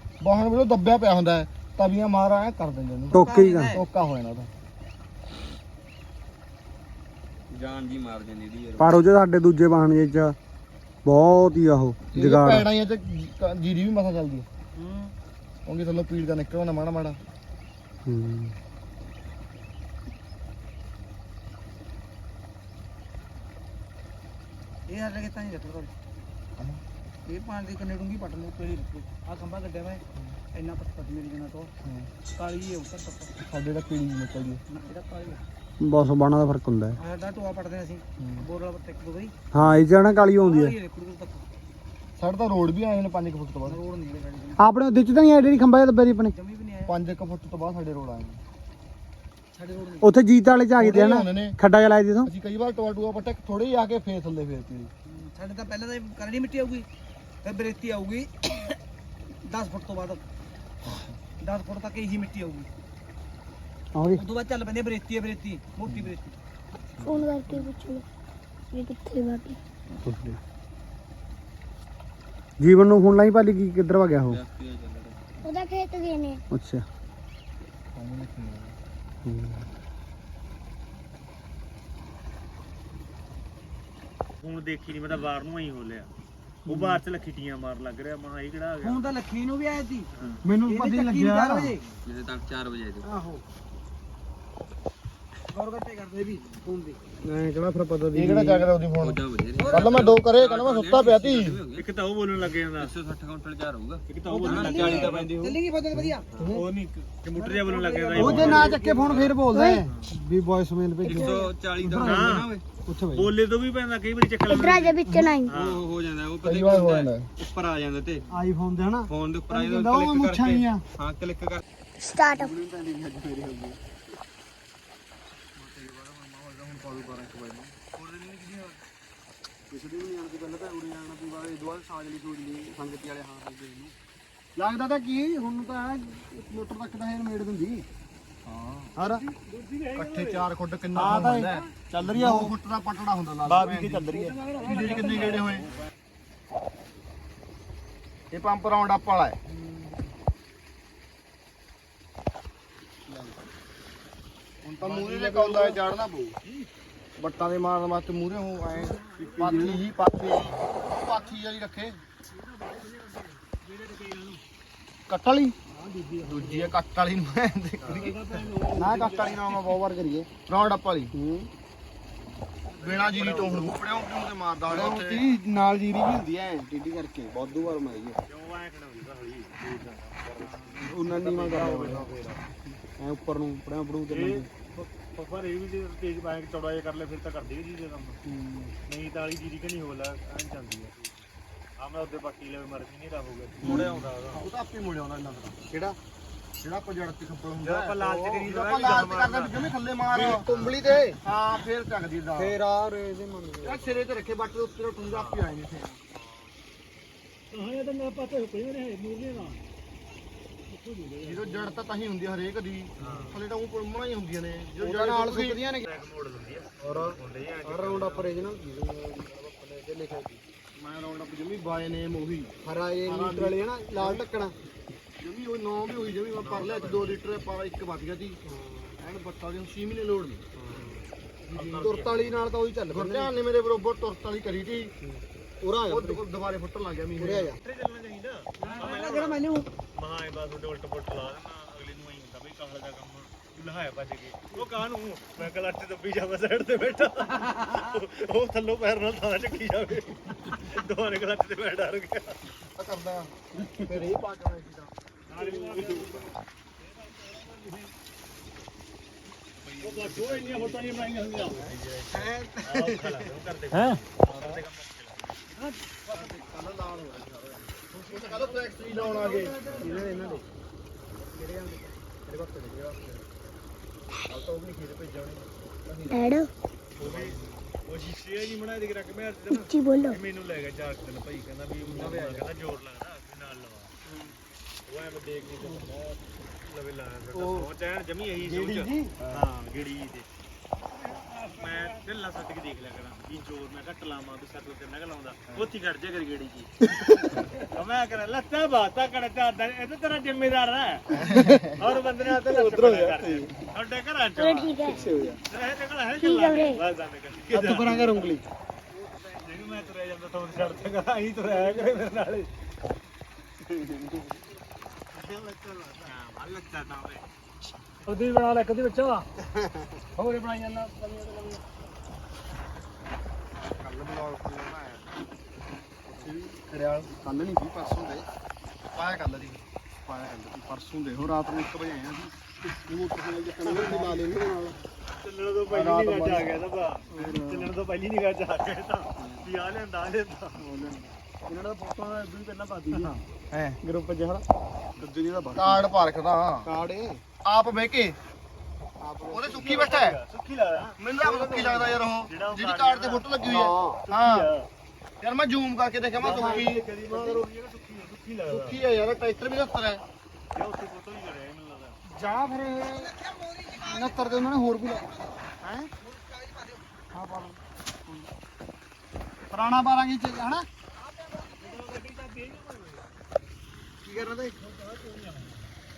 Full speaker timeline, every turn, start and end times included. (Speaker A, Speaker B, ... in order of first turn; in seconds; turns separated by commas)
Speaker A: 0.2-4.5, Speaker B: 3.1-3.8, Speaker C: 3.1-3.8, Speaker D: 7.5-9.1, Speaker B: 8.8-10.3, Speaker B: 11.0-12.7, Speaker A: 12.1-14.5, Speaker C: 14.8-15.1, Speaker A: 15.7-17.2, Speaker B: 18.1-18.5, Speaker C: 24.9-25.9, Speaker A: 26.6-26.8, Speaker C: 27.2-30.0, Speaker C: 30.5-31.7, Speaker A: 31.8-32.1, Speaker C: 32.3-33.3, Speaker A: 33.4-34.6, Speaker C: 34.7-35.4, Speaker B: 35.8-37.0, Speaker C: 37.0-39.3, Speaker A: 38.2-38.4, Speaker B: 39.5-40.8, Speaker C: 40.4-41.5, Speaker A: 42.2-43.8, Speaker C: 43.6-44.6, Speaker B: 44.6-46.3, Speaker C: 46.3-46.9, Speaker A: 46.9-48.4, Speaker C: 49.5-50.1, Speaker B: 50.0-52.3, Speaker A: 50.8-51.6, Speaker A: 52.2-54.9, Speaker C: 55.1-56.9, Speaker C: 57.4-58.7, Speaker C: 59.4-60.2, Speaker C: 61.4-62.7, Speaker B: 63.9-64.2, Speaker C: 64.1-66.4, Speaker E: 67.1-68.0, Speaker E: 68.7-69.6, Speaker B: 70.0-70.4, Speaker B: 72.6-74.4, Speaker D: 74.2-75.4, Speaker E: 75.4-76.4, Speaker B: 76.5-76.8, Speaker A: 77.9-78.8, Speaker B: 79.2-79.7, Speaker F: 84.4-86.1, Speaker B: 86.7-87.0, Speaker F: 86.7-89.1, Speaker C: 88.8-90.1, Speaker D: 90.2-90.5, Speaker B: 90.4-91.7, Speaker C: 90.6-91.8, Speaker D: 91.8-93.1, Speaker C: 95.5-97.0, Speaker B: 97.2-98.7, Speaker A: 98.1-101.6, Speaker D: 99.0-101.8, Speaker C: 99.6-100.0, Speaker F: 101.8-102.9, Speaker D: 102.8-105.6, Speaker F: 104.1-105.3, Speaker C: 104.3-106.3, Speaker D: 106.3-106.6, Speaker F: 106.4-108.8, Speaker C: 107.3-109.3, Speaker B: 108.2-113.3, Speaker E: 109.5-109.8, Speaker D: 109.8-110.1, Speaker E: 111.0-111.5, Speaker D: 111.1-112.6, Speaker F: 112.0-112.5, Speaker F: 113.1-115.9, Speaker E: 114.5-115.5, Speaker B: 115.0-115.5, Speaker D: 115.5-118.3, Speaker A: 116.4-117.3, Speaker B: 118.3-120.8, Speaker D: 119.0-121.6, Speaker E: 122.0-122.5, Speaker B: 122.3-123.8, Speaker A: 125.5-128.7, Speaker A: 130.2-130.5, Speaker A: 131.4-133.9, Speaker B: 134.6-137.8, Speaker A: 138.4-139.0, Speaker B: 138.9-139.2, Speaker F: 139.2-140.4, Speaker A: 139.9-145.7, Speaker B: 140.9-142.5, Speaker F: 143.5-145.7, Speaker A: 148.3-149.4, Speaker A: 154.6-156.2, Speaker B: 155.2-155.6, Speaker A: 157.2-162.0, Speaker F: 158.9-160.6, Speaker B: 159.4-159.8, Speaker F: 165.7-166.7, Speaker A: 166.3-168.3, Speaker F: 167.8-169.7, Speaker B: 168.7-170.3, Speaker A: 170.4-171.1, Speaker B: 171.1-171.5, Speaker F: 172.7-174.0, Speaker A: 172.8-175.3, Speaker B: 174.7-178.2, Speaker F: 178.3-182.4, Speaker C: 180.5-180.9, Speaker B: 180.8-182.1, Speaker B: 182.9-184.5, Speaker F: 184.1-188.2, Speaker B: 188.3-188.7, Speaker F: 188.8-191.2, Speaker F: 191.8-194.5, Speaker B: 193.6-193.9, Speaker A: 193.6-195.6, Speaker B: 195.7-195.9, Speaker A: 196.6-200.5, Speaker F: 197.6-199.7, Speaker B: 200.1-201.2, Speaker F: 200.3-200.8, Speaker A: 201.1-202.6, Speaker B: 202.3-204.0, Speaker A: 203.6-206.0, Speaker F: 205.0-205.5, Speaker F: 206.1-206.5, Speaker F: 207.5-209.6, Speaker F: 211.0-211.4, Speaker A: 211.2-215.6, Speaker F: 213.0-213.4, Speaker B: 213.0-213.3, Speaker B: 214.8-215.8, Speaker F: 215.8-218.5, Speaker B: 216.8-217.1, Speaker B: 217.6-220.4, Speaker A: 220.8-222.5, Speaker B: 222.6-224.5, Speaker A: 223.0-224.3, Speaker A: 225.2-228.4, Speaker F: 226.4-227.2, Speaker A: 229.0-230.4, Speaker F: 230.7-232.5, Speaker B: 231.8-233.3, Speaker A: 232.9-234.9, Speaker B: 235.6-236.2, Speaker A: 235.8-237.5, Speaker B: 237.2-237.5, Speaker F: 237.6-239.4, Speaker C: 238.6-239.7, Speaker F: 239.9-252.4, Speaker A: 252.7-254.9, Speaker F: 255.3-257.9, Speaker F: 259.8-265.4, Speaker D: 260.5-261.0, Speaker A: 261.4-261.7, Speaker A: 266.1-269.6, Speaker F: 268.0-268.4, Speaker C: 268.8-270.4, Speaker F: 269.7-270.4, Speaker B: 269.8-270.4, Speaker A: 272.3-273.2, Speaker A: 274.3-276.3, Speaker E: 276.1-276.5, Speaker F: 277.0-283.9, Speaker A: 277.0-277.4, Speaker E: 279.7-280.1, Speaker B: 281.8-282.3, Speaker F: 284.9-290.3, Speaker B: 287.3-287.7, Speaker B: 288.4-289.1, Speaker F: 291.1-304.9, Speaker A: 301.1-301.8, Speaker E: 304.4-305.1, Speaker B: 304.9-305.3, Speaker F: 305.5-308.2, Speaker E: 306.2-306.7, Speaker B: 307.5-308.4, Speaker F: 309.4-312.5, Speaker F: 315.2-317.2, Speaker A: 323.7-325.1, Speaker A: 326.1-326.7, Speaker B: 327.1-328.2, Speaker A: 328.9-334.3, Speaker B: 333.7-334.7, Speaker F: 335.2-340.6, Speaker A: 335.7-336.6, Speaker B: 337.1-337.7, Speaker B: 340.6-340.9, Speaker F: 341.9-343.1, Speaker A: 343.5-343.8, Speaker B: 343.8-344.4, Speaker B: 345.0-345.7, Speaker A: 345.5-346.7, Speaker B: 346.6-347.2, Speaker A: 347.4-348.2, Speaker B: 349.0-349.4, Speaker A: 349.3-350.2, Speaker F: 349.4-351.2, Speaker A: 351.0-354.5, Speaker F: 352.1-353.5, Speaker B: 353.5-354.0, Speaker F: 354.0-354.7, Speaker A: 355.2-356.8, Speaker F: 356.2-358.8, Speaker B: 356.3-357.4, Speaker A: 358.5-360.0, Speaker F: 360.5-362.0, Speaker B: 362.1-363.1, Speaker C: 363.0-365.4, Speaker B: 363.7-365.0, Speaker B: 365.6-365.9, Speaker C: 366.0-366.8, Speaker B: 367.1-368.2, Speaker B: 369.5-370.6, Speaker C: 371.0-371.8, Speaker F: 371.6-373.1, Speaker B: 374.0-374.5, Speaker F: 374.2-375.7